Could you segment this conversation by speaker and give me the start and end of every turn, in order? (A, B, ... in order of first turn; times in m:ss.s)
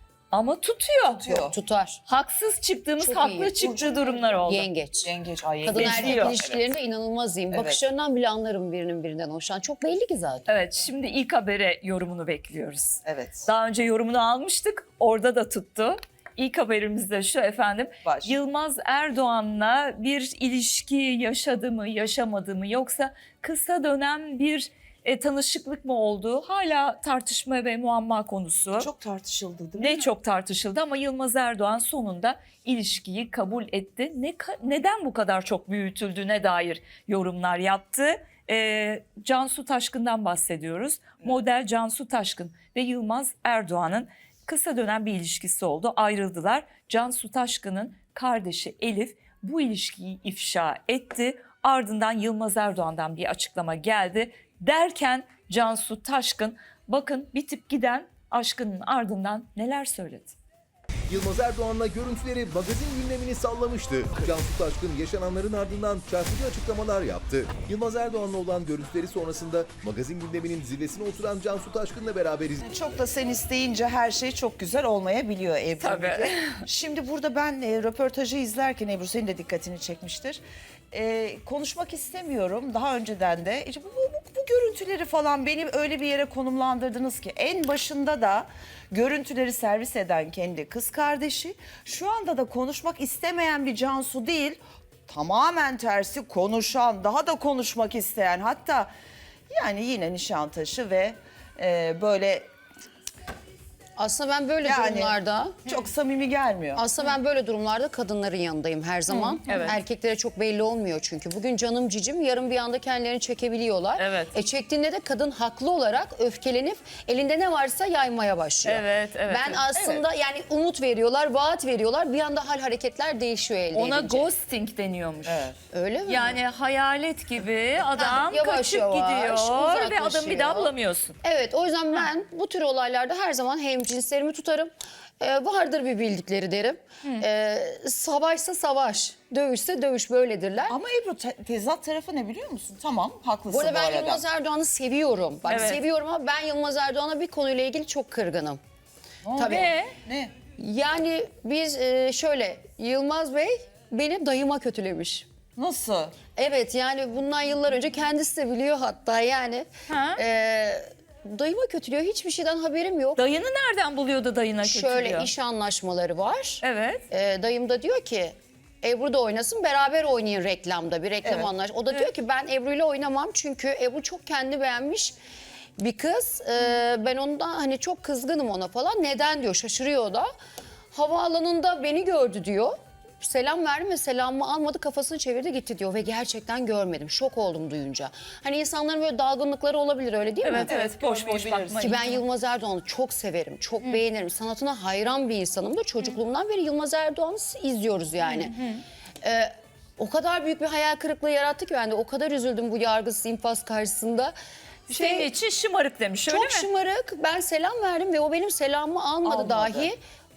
0:00.3-0:01.3 A
0:01.2-0:01.6 B
0:01.3-0:02.0 C
0:02.0-0:04.7 A
0:03.0-0:10.5 C
0:05.0-0:06.6 B
0:05.7-0:06.4 A
0:07.5-0:07.8 B
0:10.5-0:28.9 A
0:13.0-0:13.5 B
0:18.0-0:18.4 B
0:28.7-0:30.1 B
0:29.8-1:00.4 A
1:01.1-1:12.6 D
1:12.6-1:20.4 B
1:15.8-1:16.6 A
1:20.9-1:38.9 B
1:39.5-1:42.5 B
1:44.0-1:45.7 C
1:44.6-1:46.8 B
1:46.7-2:04.3 C
1:49.1-1:49.8 A
1:54.0-1:54.3 A
1:58.6-1:59.6 A
1:59.7-2:00.0 B
2:03.7-2:05.5 A
2:05.2-2:05.6 B
2:05.7-2:06.4 C
2:06.0-2:11.2 A
2:07.9-2:20.8 C
2:20.7-2:24.2 B
2:23.5-2:28.6 C
2:25.5-2:25.8 A
2:29.2-2:30.4 B
2:29.3-2:29.7 C
2:29.4-2:29.9 A
2:30.6-2:35.3 C
2:35.6-2:36.2 B
2:36.3-2:43.2 C
2:39.9-2:40.2 A
2:43.2-2:45.3 A
2:44.6-2:55.1 C
2:46.6-2:47.0 A
2:55.8-3:00.3 C
3:00.9-3:10.7 C
3:10.4-3:12.2 A
3:10.6-3:12.1 B
3:11.8-3:18.5 C
3:18.2-3:18.8 A
3:19.2-3:24.3 C
3:24.9-3:25.3 C
3:24.9-3:26.7 A
3:26.3-3:30.0 C
3:29.2-3:29.9 B